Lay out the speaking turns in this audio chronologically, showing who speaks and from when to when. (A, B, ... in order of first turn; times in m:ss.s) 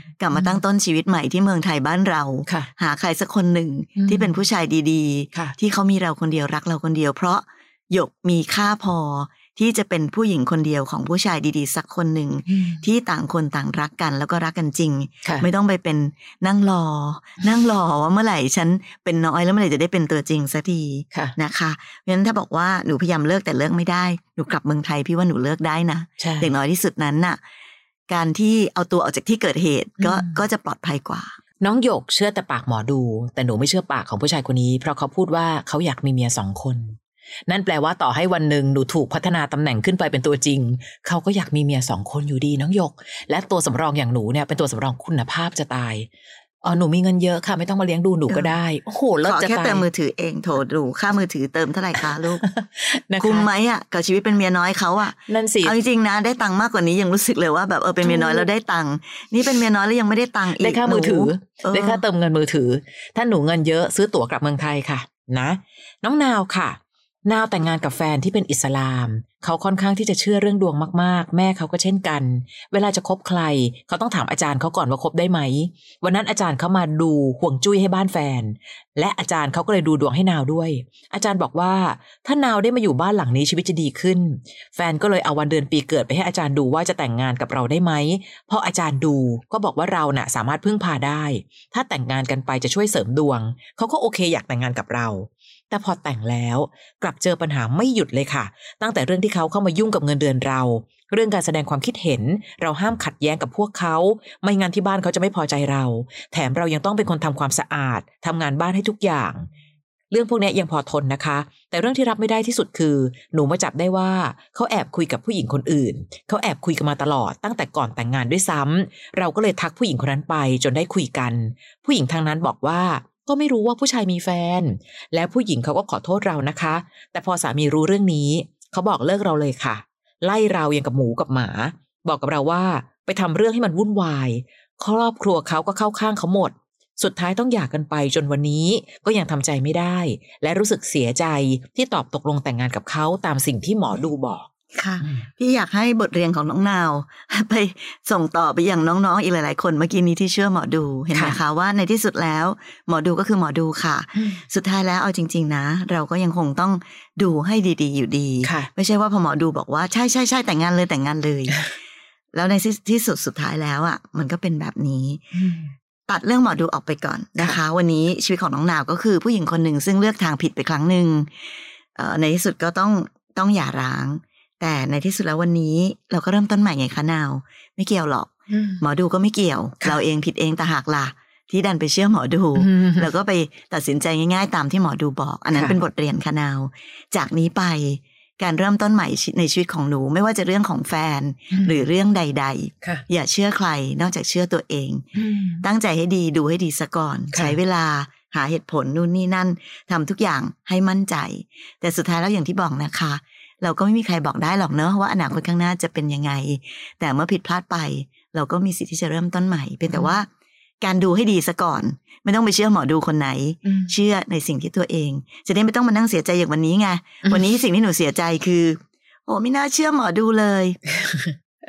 0:00.2-0:27.4 A
0:00.3-0:00.6 B
0:04.0-0:04.4 B
0:12.5-0:12.8 B
0:26.2-0:26.5 B
0:28.1-0:31.3 A
0:30.0-0:30.4 B
0:31.6-0:37.0 B
0:37.5-0:46.1 B
0:46.6-0:49.8 B
0:48.3-0:48.5 A
0:49.2-0:52.4 A
0:52.4-0:53.5 B
0:53.2-1:02.0 A
0:55.2-0:55.7 B
0:58.0-0:58.5 B
1:00.6-1:49.5 B
1:50.1-2:24.5 B
2:24.7-2:41.7 A
2:34.2-2:34.4 B
2:38.4-2:38.7 B
2:42.3-2:45.3 A
2:45.3-2:45.7 B
2:46.1-2:51.3 A
2:52.0-3:15.1 A
2:58.5-2:58.8 B
3:02.6-3:03.1 B
3:11.5-3:11.8 B
3:15.1-3:15.6 B
3:15.6-3:30.3 A
3:17.3-3:17.6 B
3:30.8-3:40.8 A
3:33.6-3:33.9 B
3:40.9-3:41.3 B